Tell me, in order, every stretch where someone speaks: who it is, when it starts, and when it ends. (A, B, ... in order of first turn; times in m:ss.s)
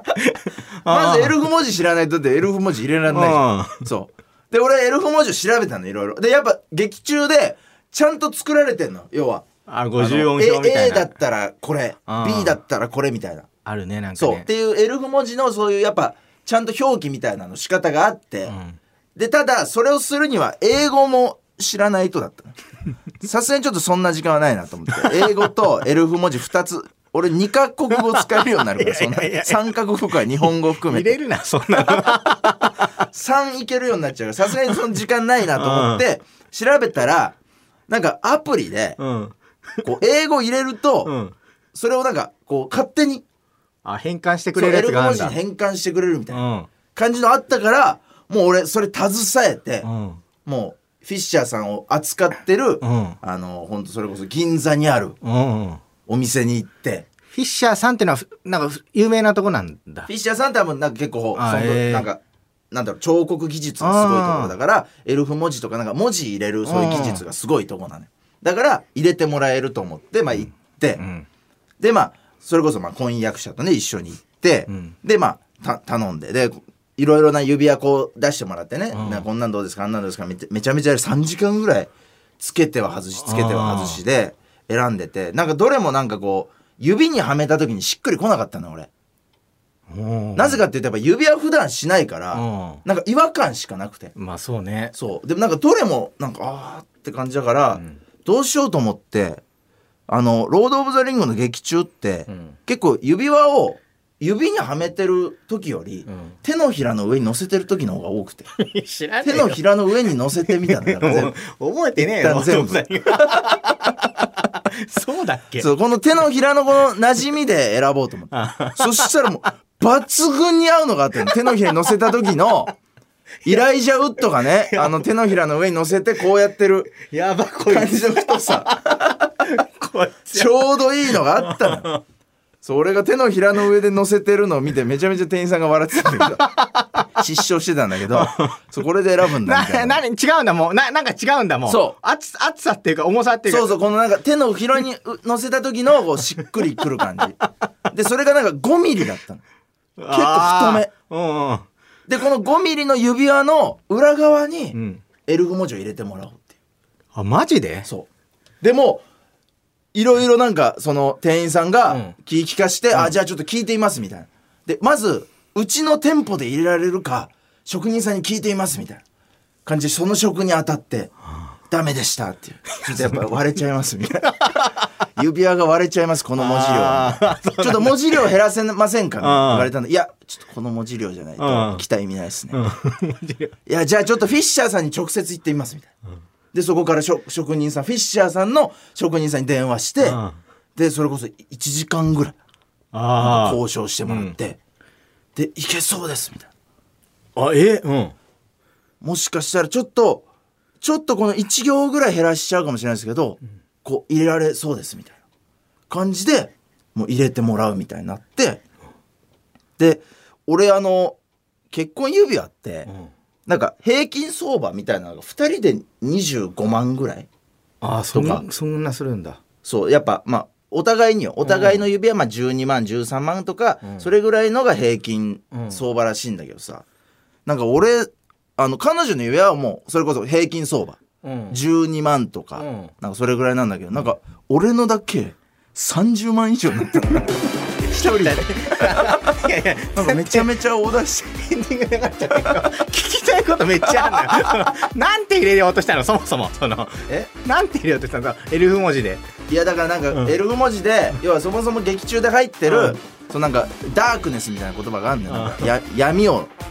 0:00.1-0:01.4 A
0:00.9-0:13.5 B
0:03.1-0:03.9 A
0:09.7-0:11.1 A
0:12.1-0:12.6 A
0:13.6-0:14.5 A
0:14.2-0:18.6 B
0:18.5-0:18.8 A
0:19.2-0:22.6 B
0:23.2-0:31.2 B
0:27.9-0:29.7 A
0:30.4-0:32.9 A
0:31.8-0:32.2 B
0:33.0-0:37.4 B
0:35.6-0:36.0 A
0:37.9-0:39.0 B
0:39.0-0:39.9 A
0:39.8-0:41.1 B
0:41.0-0:41.4 A
0:41.7-0:43.2 B
0:43.8-0:45.4 A
0:44.5-0:46.4 B
0:46.3-0:46.7 A
0:47.0-0:49.9 B
0:49.8-0:50.2 A
0:50.4-0:55.2 B
0:52.8-0:53.2 A
0:55.2-0:55.8 A
0:56.1-0:57.1 B
0:57.3-1:00.1 A
1:00.1-1:11.0 B
1:01.4-1:02.1 A
1:03.8-1:04.6 A
1:06.6-1:07.2 A
1:10.3-1:11.3 A
1:11.8-1:28.9 B
1:14.7-1:15.0 A
1:18.9-1:19.3 A
1:23.2-1:24.0 A
1:29.9-1:30.6 A
1:30.4-1:34.1 B
1:32.3-1:32.8 A
1:34.2-1:34.9 A
1:34.9-1:39.4 B
1:37.7-1:38.0 A
1:40.1-1:48.5 B
1:42.3-1:42.6 A
1:46.1-1:46.4 A
1:48.6-1:49.6 A
1:49.2-1:51.4 B
1:50.4-1:55.7 A
1:52.0-1:53.6 B
1:55.6-2:02.7 B
1:58.3-1:59.0 A
2:01.2-2:01.7 A
2:03.4-2:06.9 B
2:04.6-2:05.1 A
2:07.0-2:12.0 A
2:07.7-2:09.3 B
2:10.3-2:11.9 B
2:12.6-2:16.5 B
2:16.2-2:17.0 A
2:17.2-2:20.0 B
2:18.1-2:18.6 A
2:19.4-2:23.8 A
2:21.7-2:22.0 B
2:23.5-2:27.4 B
2:27.9-2:29.4 B
2:30.0-2:31.7 A
2:30.1-2:30.9 B
2:32.1-2:36.5 B
2:34.7-2:35.0 A
2:37.1-2:37.9 A
2:38.6-2:39.0 B
2:39.9-2:49.0 B
2:41.9-2:42.2 A
2:49.6-2:51.1 B
2:51.7-3:02.6 B
2:52.8-2:53.2 A
2:56.4-2:58.2 A
2:59.2-2:59.7 A
3:01.4-3:01.8 A
3:02.5-3:03.6 A
3:03.7-3:05.9 B
3:06.5-3:10.2 B
3:10.0-3:10.4 A
3:10.8-3:12.4 B
3:12.9-3:14.4 A
3:13.2-3:14.6 B
3:15.4-3:16.5 B
3:17.4-3:18.1 A
3:19.0-3:20.2 B
3:20.8-3:25.2 B
3:25.9-3:28.6 B
3:29.8-3:31.2 B
3:31.7-3:32.9 B
3:33.5-3:37.3 B
3:37.8-3:39.4 A
3:38.1-3:38.5 B
3:39.6-3:46.8 B
3:41.4-3:41.8 A
3:45.5-3:45.8 A
3:47.5-3:51.0 B
3:51.2-3:51.6 A
3:51.5-4:01.4 B
3:52.6-3:52.9 A
3:57.8-4:00.5 A
4:01.3-4:09.2 A
4:04.0-4:04.5 B
4:09.5-4:16.5 B
4:12.7-4:13.0 A
4:15.3-4:15.7 A